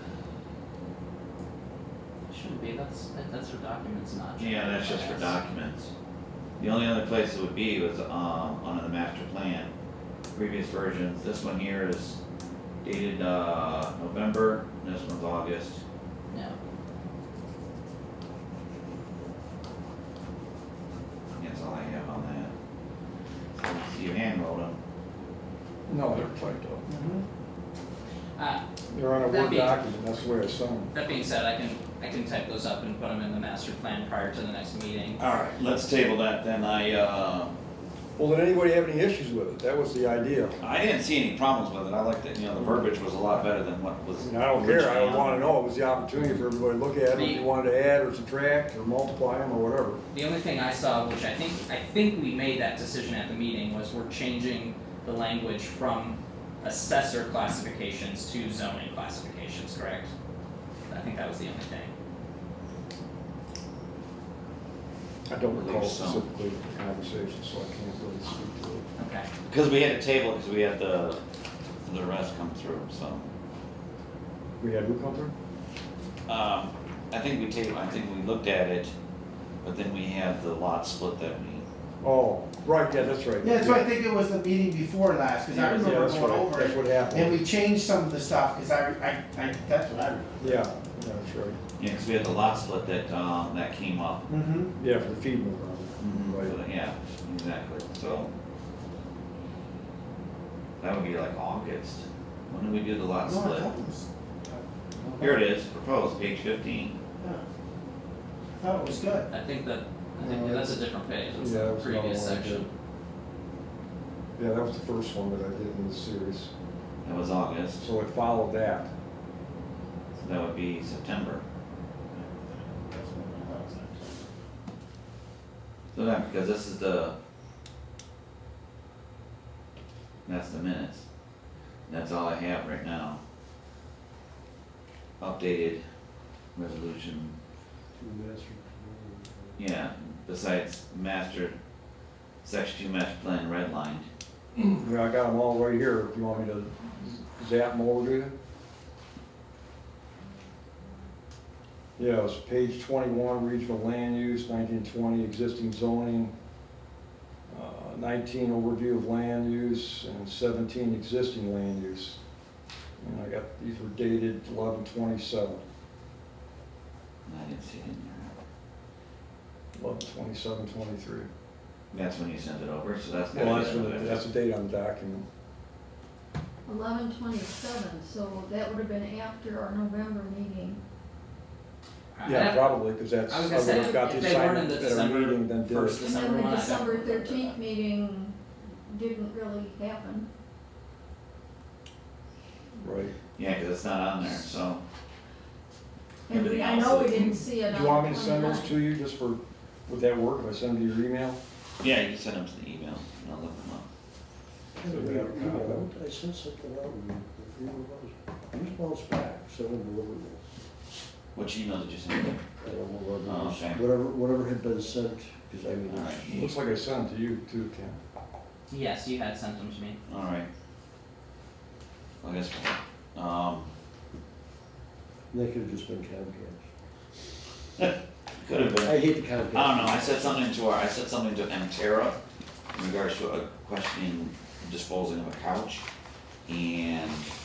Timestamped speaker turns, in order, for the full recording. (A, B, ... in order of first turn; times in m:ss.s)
0:02.3-0:05.4 A
0:04.4-0:05.9 B
0:06.6-0:09.7 B
0:10.3-0:12.2 B
0:12.8-0:15.8 B
0:16.3-0:16.6 A
0:21.4-0:22.5 B
0:23.6-0:24.8 B
0:25.9-0:26.8 C
0:26.9-0:27.2 D
0:28.4-0:28.6 A
0:28.9-0:30.9 C
0:29.2-0:29.8 A
0:30.9-0:35.2 A
0:35.2-0:37.6 B
0:38.2-0:40.6 C
0:40.6-0:45.5 B
0:42.5-0:43.5 C
0:44.2-0:50.0 C
0:47.1-0:47.4 A
0:50.1-1:00.1 A
1:00.9-1:01.9 A
1:05.3-1:08.9 C
1:05.5-1:06.2 B
1:09.0-1:09.3 A
1:09.5-1:11.2 B
1:11.8-1:13.3 B
1:14.6-1:15.3 C
1:16.3-1:18.9 B
1:19.6-1:21.6 B
1:22.0-1:23.9 C
1:23.4-1:30.6 D
1:25.5-1:26.0 B
1:25.7-1:27.4 C
1:30.4-1:31.6 C
1:31.8-1:34.2 B
1:34.3-1:34.7 D
1:34.8-1:36.5 C
1:36.0-1:38.3 B
1:40.8-1:43.7 B
1:43.2-1:45.4 D
1:45.2-1:47.0 B
1:48.5-1:49.2 D
1:49.3-1:52.7 A
1:50.2-1:52.7 C
1:54.4-1:56.5 C
1:57.0-1:57.8 B
1:57.8-1:58.9 C
2:00.1-2:01.4 B
2:02.4-2:03.9 D
2:05.9-2:07.1 B
2:10.2-2:11.0 B
2:11.9-2:13.2 B
2:15.2-2:15.8 B
2:16.5-2:17.3 B
2:17.9-2:19.6 E
2:19.6-2:21.6 B
2:22.4-2:24.1 B
2:24.5-2:28.3 C
2:32.0-2:36.3 C
2:37.5-2:42.2 C
2:43.0-2:45.6 C
2:47.2-2:48.3 B
2:49.8-2:51.3 C
2:51.9-2:54.2 B
2:53.3-2:55.2 C
2:56.6-3:00.8 F
3:02.2-3:02.8 A
3:02.2-3:06.1 C
3:03.3-3:07.6 A
3:03.6-3:03.9 F
3:06.0-3:10.3 F
3:12.8-3:13.1 C
3:13.4-3:14.8 B
3:16.3-3:18.7 F
3:16.3-3:17.4 B
3:17.6-3:21.4 C
3:21.8-3:23.9 B
3:24.8-3:30.4 E
3:24.8-3:25.9 C
3:31.3-3:32.4 B
3:32.6-3:36.3 E
3:33.2-3:33.8 B
3:35.9-3:36.5 B
3:36.2-3:38.0 C
3:38.7-3:40.0 A
3:40.1-3:40.5 B
3:42.2-3:43.7 B
3:45.3-3:46.7 E
3:47.8-3:52.2 B
3:48.5-3:50.4 E
3:52.7-3:55.8 B
3:56.5-3:57.3 B